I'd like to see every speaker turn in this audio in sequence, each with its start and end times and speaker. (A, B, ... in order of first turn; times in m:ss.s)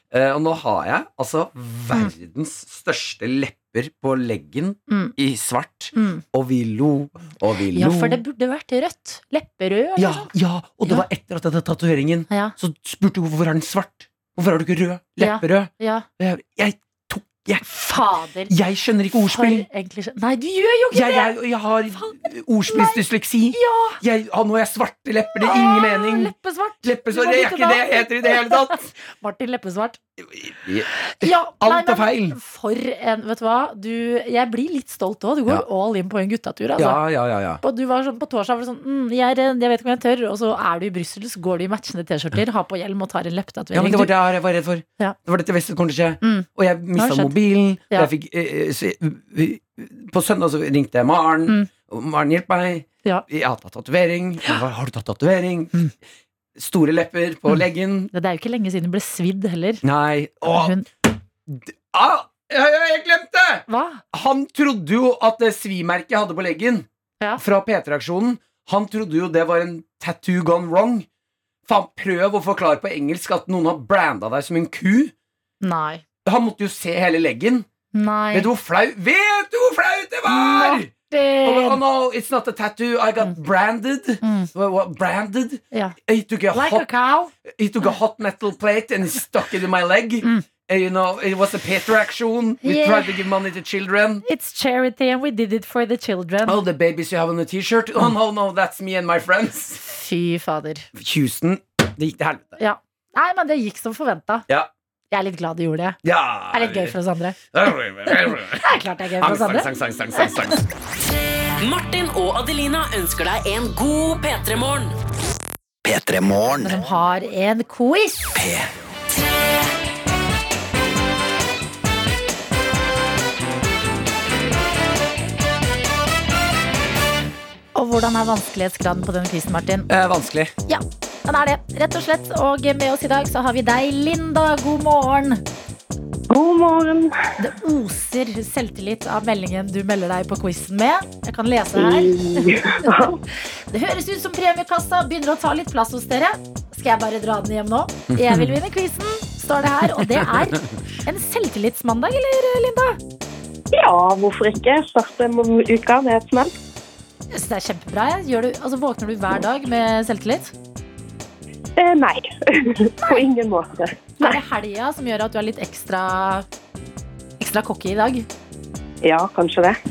0:00.1-0:08.2 A
0:04.9-0:05.1 B
0:05.9-0:06.2 B
0:07.7-0:10.3 B
0:10.0-0:17.7 A
0:12.3-0:12.5 B
0:15.2-0:16.0 B
0:17.6-0:18.5 B
0:18.5-0:19.6 A
0:19.2-0:21.3 B
0:20.9-0:28.9 A
0:22.7-0:23.0 B
0:23.5-0:24.0 B
0:25.4-0:30.0 B
0:30.3-0:32.4 A
0:31.1-0:37.0 B
0:36.8-0:37.6 A
0:37.6-0:44.1 B
0:43.7-0:55.8 A
0:47.0-0:47.3 B
0:56.6-0:58.1 A
0:58.1-0:59.8 B
0:59.8-1:00.8 A
1:00.4-1:00.8 B
1:01.5-1:06.8 A
1:03.7-1:04.0 B
1:07.4-1:11.0 A
1:11.6-1:15.1 A
1:15.6-1:16.0 B
1:16.2-1:17.6 A
1:17.9-1:18.5 B
1:18.3-1:20.9 A
1:20.3-1:21.8 B
1:21.4-1:26.8 A
1:24.2-1:24.5 B
1:26.5-1:27.3 B
1:27.5-1:34.2 A
1:32.6-1:33.2 B
1:34.2-1:36.6 B
1:36.4-1:39.8 A
1:39.8-1:40.9 B
1:40.9-1:42.6 A
1:42.6-1:44.4 B
1:45.1-1:46.0 B
1:46.0-1:47.0 A
1:46.5-1:47.4 B
1:47.5-1:48.6 A
1:48.3-1:49.7 B
1:49.2-1:50.6 A
1:51.6-1:54.9 C
1:55.8-1:56.8 C
1:56.6-1:58.3 B
1:58.3-1:58.7 C
2:07.7-2:09.9 B
2:09.9-2:10.5 A
2:10.7-2:15.4 B
2:16.3-2:17.2 D
2:17.4-2:33.0 B
2:21.8-2:23.2 D
2:28.1-2:28.5 A
2:30.0-2:30.3 A
2:33.7-2:36.5 D
2:37.3-2:40.5 B
2:41.8-2:44.4 D
2:44.2-2:46.4 B
2:47.4-2:48.3 B
2:49.0-2:49.8 D